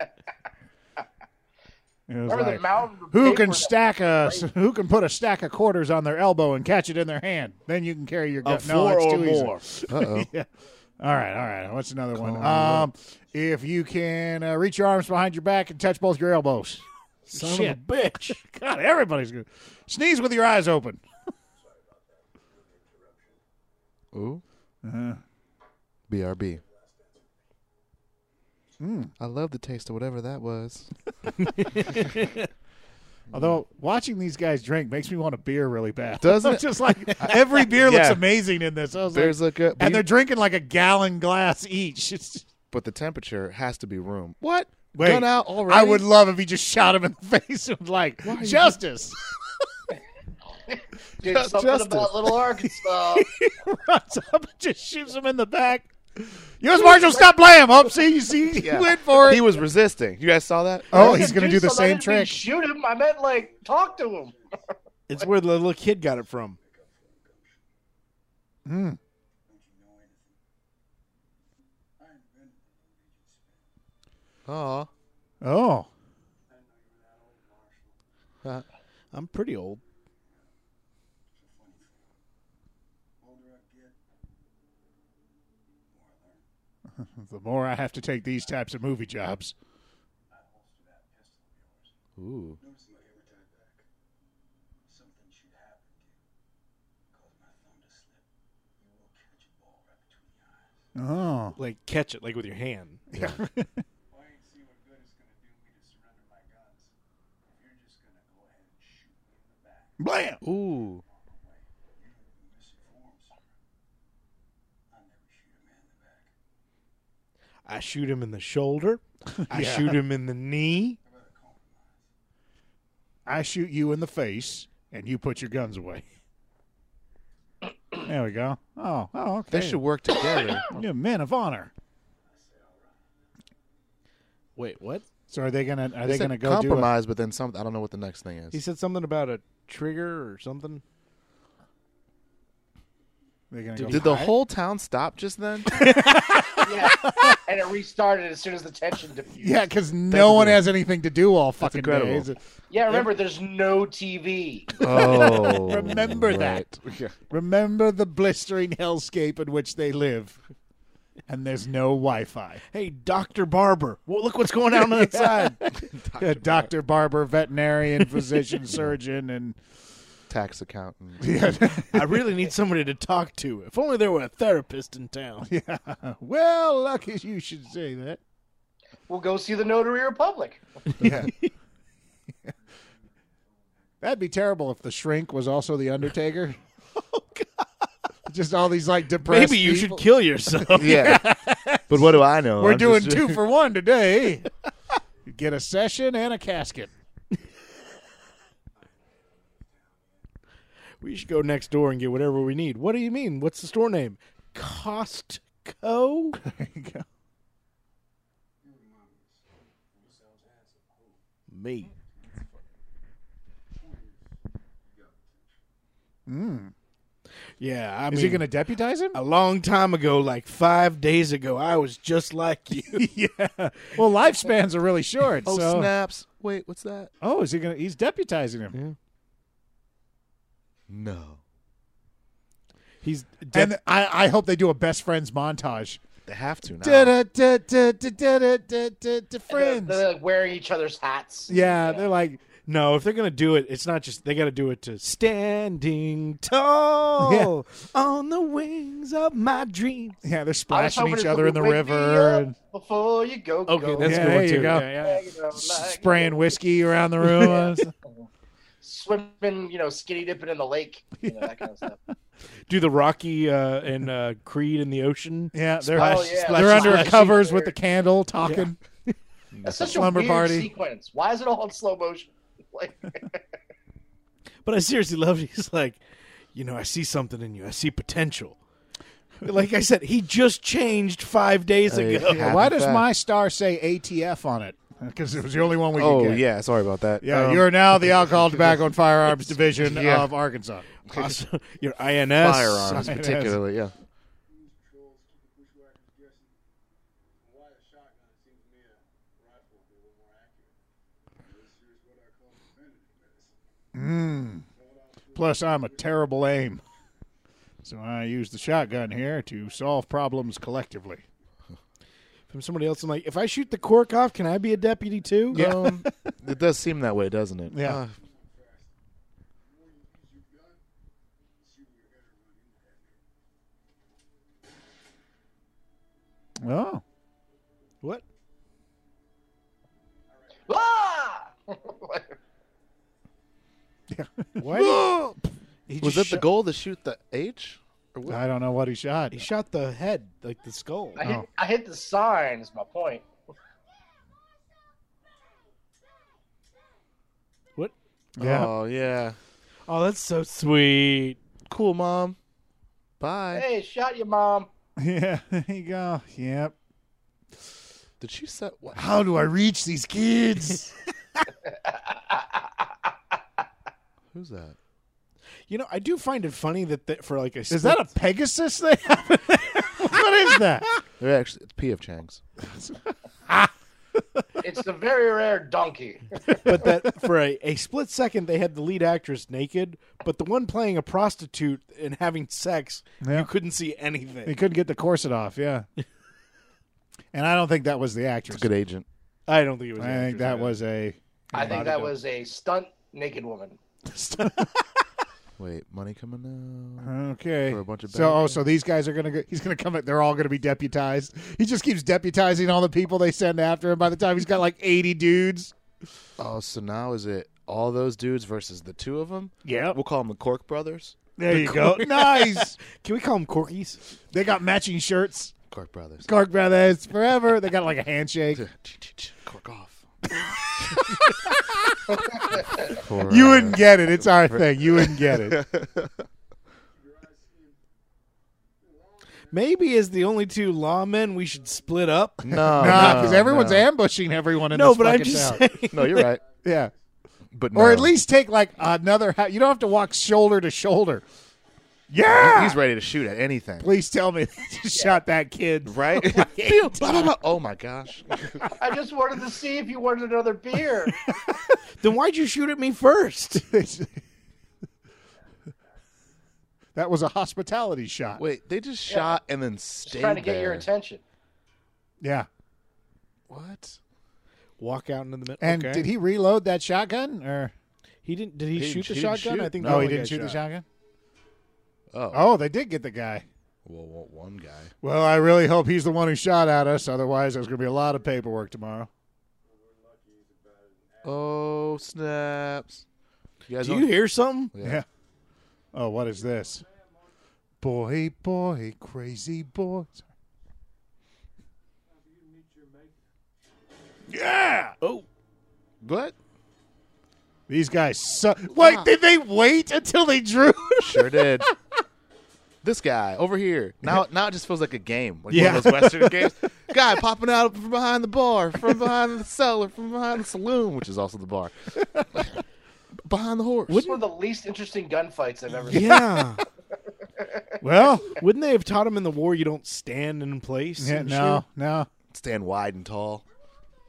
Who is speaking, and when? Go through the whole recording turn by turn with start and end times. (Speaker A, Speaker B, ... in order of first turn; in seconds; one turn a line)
Speaker A: 2.1-10.5
Speaker B: 2.3-3.7
Speaker C: 8.4-9.6
Speaker D: 9.9-10.3
Speaker A: 11.0-21.0
Speaker D: 12.1-12.9
Speaker C: 17.3-18.4
Speaker E: 21.6-23.4
Speaker D: 24.1-24.4
Speaker A: 24.8-25.2
Speaker D: 26.1-26.6
Speaker E: 26.6-27.2
Speaker A: 28.8-29.1
Speaker D: 29.2-30.9
Speaker C: 31.6-32.4
Speaker D: 33.3-33.6
Speaker A: 33.3-42.5
Speaker D: 36.2-38.3
Speaker D: 39.1-40.1
Speaker D: 42.7-46.1
Speaker A: 44.9-49.2
Speaker D: 48.2-48.8
Speaker B: 50.7-53.3
Speaker D: 51.2-52.5
Speaker A: 53.1-59.5
Speaker B: 56.8-57.2
Speaker D: 58.5-61.3
Speaker A: 60.9-62.5
Speaker B: 60.9-64.4
Speaker E: 63.6-64.5
Speaker C: 65.1-66.6
Speaker E: 66.6-67.6
Speaker A: 68.7-69.0
Speaker E: 69.5-70.3
Speaker E: 72.0-73.6
Speaker D: 74.5-74.9
Speaker A: 75.4-75.9
Speaker E: 76.5-78.0
Speaker C: 79.1-79.8
Speaker E: 81.3-82.1
Speaker E: 83.2-84.0
Speaker E: 85.9-86.5
Speaker A: 87.0-89.5
Speaker E: 90.3-91.9
Speaker D: 92.2-92.6
Speaker E: 92.6-93.8
Speaker E: 94.8-96.2
Speaker E: 97.1-98.2
Speaker E: 98.8-100.8
Speaker A: 101.0-101.6
Speaker C: 101.6-103.0
Speaker A: 103.1-103.8
Speaker D: 103.2-103.4
Speaker E: 104.1-106.9
Speaker E: 107.5-109.9
Speaker A: 110.0-110.4
Speaker D: 110.4-111.0
Speaker E: 110.5-113.4
Speaker E: 114.9-116.3
Speaker C: 117.7-121.0
Speaker A: 119.3-120.0
Speaker E: 121.1-122.0
Speaker A: 123.3-126.1
Speaker A: 128.1-129.8
Speaker D: 129.5-130.7
Speaker A: 130.7-131.7
Speaker E: 132.3-132.9
Speaker C: 134.6-135.1
Speaker A: 135.3-136.9
Speaker D: 136.1-138.6
Speaker C: 138.5-140.8
Speaker A: 143.5-144.3
Speaker C: 143.8-144.2
Speaker D: 143.9-146.0
Speaker A: 145.8-147.4
Speaker C: 145.8-146.5
Speaker B: 146.6-149.7
Speaker A: 149.4-152.4
Speaker D: 150.1-150.6
Speaker D: 151.6-152.3
Speaker B: 152.7-154.8
Speaker D: 154.8-157.1
Speaker A: 154.8-156.7
Speaker A: 157.3-160.4
Speaker A: 161.3-162.6
Speaker C: 162.7-165.6
Speaker A: 164.8-169.6
Speaker D: 165.8-166.7
Speaker D: 170.3-171.5
Speaker A: 171.2-172.3
Speaker C: 171.9-175.5
Speaker A: 175.4-178.2
Speaker B: 179.1-180.6
Speaker A: 181.0-181.3
Speaker C: 181.0-181.3
Speaker A: 184.0-186.6
Speaker A: 188.3-194.5
Speaker C: 189.2-191.2
Speaker D: 190.8-191.3
Speaker D: 191.9-193.4
Speaker A: 195.3-196.9
Speaker E: 199.3-200.0
Speaker C: 201.0-206.4
Speaker A: 206.4-207.0
Speaker E: 208.6-209.4
Speaker E: 209.9-211.2
Speaker C: 211.5-211.9
Speaker A: 216.3-216.7
Speaker C: 217.6-218.5
Speaker A: 218.1-219.2
Speaker C: 219.1-223.0
Speaker A: 222.8-225.9
Speaker D: 225.4-227.1
Speaker A: 227.2-228.8
Speaker D: 230.9-231.4
Speaker C: 233.0-233.7
Speaker A: 233.5-236.0
Speaker D: 236.3-237.2
Speaker A: 236.8-240.0
Speaker B: 239.5-242.1
Speaker A: 241.5-242.4
Speaker C: 242.7-250.2
Speaker A: 247.2-247.6
Speaker A: 250.2-252.6
Speaker B: 250.7-256.5
Speaker C: 253.7-255.2
Speaker A: 254.0-257.9
Speaker B: 257.2-257.8
Speaker B: 258.8-262.0
Speaker A: 261.2-261.5
Speaker C: 262.7-267.5
Speaker A: 265.5-268.8
Speaker B: 265.9-267.8
Speaker C: 268.4-269.1
Speaker D: 269.5-270.1
Speaker B: 269.6-273.4
Speaker A: 269.9-270.7
Speaker C: 274.6-276.0
Speaker C: 276.5-278.6
Speaker C: 279.4-282.6
Speaker D: 281.9-283.1
Speaker A: 282.3-286.4
Speaker D: 285.9-287.7
Speaker A: 287.2-290.9
Speaker D: 289.8-290.3
Speaker D: 291.1-291.4
Speaker C: 291.1-293.1
Speaker D: 292.4-293.9
Speaker A: 292.8-293.6
Speaker E: 294.7-296.5
Speaker E: 297.5-300.7
Speaker E: 301.4-303.5
Speaker A: 303.9-304.7
Speaker E: 304.8-305.1
Speaker A: 305.3-306.8
Speaker A: 307.8-311.2
Speaker C: 312.5-315.6
Speaker D: 315.5-318.2
Speaker A: 315.5-316.2
Speaker A: 317.7-318.0
Speaker E: 319.8-320.8
Speaker E: 321.6-323.1
Speaker A: 326.6-327.0
Speaker B: 330.7-332.3
Speaker A: 334.1-335.4
Speaker C: 334.6-335.2
Speaker C: 335.9-336.5
Speaker D: 336.0-338.4
Speaker A: 338.3-339.5
Speaker C: 339.3-341.2
Speaker B: 341.2-343.2
Speaker A: 341.2-341.5
Speaker A: 348.4-348.7
Speaker D: 348.4-349.4
Speaker C: 349.9-351.4
Speaker D: 351.7-352.4
Speaker D: 353.2-353.6
Speaker B: 353.5-354.7
Speaker A: 355.0-356.7
Speaker D: 358.2-359.1
Speaker A: 358.9-360.9
Speaker B: 361.7-362.9
Speaker D: 364.3-364.8
Speaker C: 365.7-368.1
Speaker A: 367.7-371.0
Speaker C: 369.5-370.1
Speaker D: 371.2-372.4
Speaker A: 372.6-373.7
Speaker A: 374.4-374.6
Speaker B: 374.6-376.6
Speaker C: 376.6-384.5
Speaker A: 383.2-383.5
Speaker A: 384.5-385.9
Speaker A: 387.3-388.7
Speaker D: 388.5-389.1
Speaker C: 389.5-390.8
Speaker A: 390.0-392.1
Speaker B: 391.5-393.8
Speaker A: 394.1-394.7
Speaker D: 395.6-397.1
Speaker A: 397.0-405.7
Speaker D: 397.7-398.6
Speaker D: 406.4-411.2
Speaker A: 409.6-410.0
Speaker A: 411.4-412.8
Speaker C: 411.5-414.0
Speaker A: 414.3-415.5
Speaker D: 415.7-416.3
Speaker A: 416.2-418.6
Speaker D: 418.6-420.1
Speaker A: 420.4-425.6
Speaker D: 422.5-426.2
Speaker E: 427.2-427.8
Speaker C: 429.5-433.5
Speaker D: 432.4-433.9
Speaker A: 432.5-435.6
Speaker C: 434.7-436.4
Speaker D: 435.9-436.4
Speaker A: 436.6-436.9
Speaker D: 437.5-438.1
Speaker A: 437.7-441.2
Speaker A: 442.1-442.8
Speaker D: 442.2-443.9
Speaker A: 443.8-447.3
Speaker D: 445.9-448.7
Speaker B: 448.8-451.3
Speaker C: 452.0-453.6
Speaker A: 453.7-454.2
Speaker A: 457.0-458.4
Speaker D: 458.4-460.9
Speaker B: 459.1-459.4
Speaker B: 460.1-461.2
Speaker A: 462.2-462.5
Speaker D: 463.5-464.0
Speaker C: 464.8-466.1
Speaker A: 465.6-467.7
Speaker C: 468.2-470.6
Speaker D: 468.7-470.1
Speaker A: 469.8-470.9
Speaker D: 472.1-472.4
Speaker A: 472.3-473.5
Speaker D: 473.9-474.9
Speaker A: 475.0-479.1
Speaker E: 479.8-481.6
Speaker D: 481.2-483.0
Speaker D: 483.7-484.2
Speaker C: 483.8-484.7
Speaker D: 484.7-485.0
Speaker A: 484.8-485.1
Speaker A: 485.9-486.9
Speaker A: 487.8-490.3
Speaker E: 492.1-493.3
Speaker A: 494.3-495.0
Speaker C: 495.0-495.3
Speaker D: 496.0-496.4
Speaker A: 497.7-501.7
Speaker D: 498.7-499.1
Speaker D: 501.0-501.7
Speaker D: 502.8-511.7
Speaker A: 505.5-506.5
Speaker D: 512.3-512.6
Speaker D: 513.2-514.2
Speaker C: 513.9-514.2
Speaker B: 514.0-516.3
Speaker C: 515.9-516.6
Speaker B: 517.4-517.6
Speaker A: 517.8-518.4
Speaker C: 518.4-521.6
Speaker A: 521.0-522.1
Speaker D: 522.3-523.4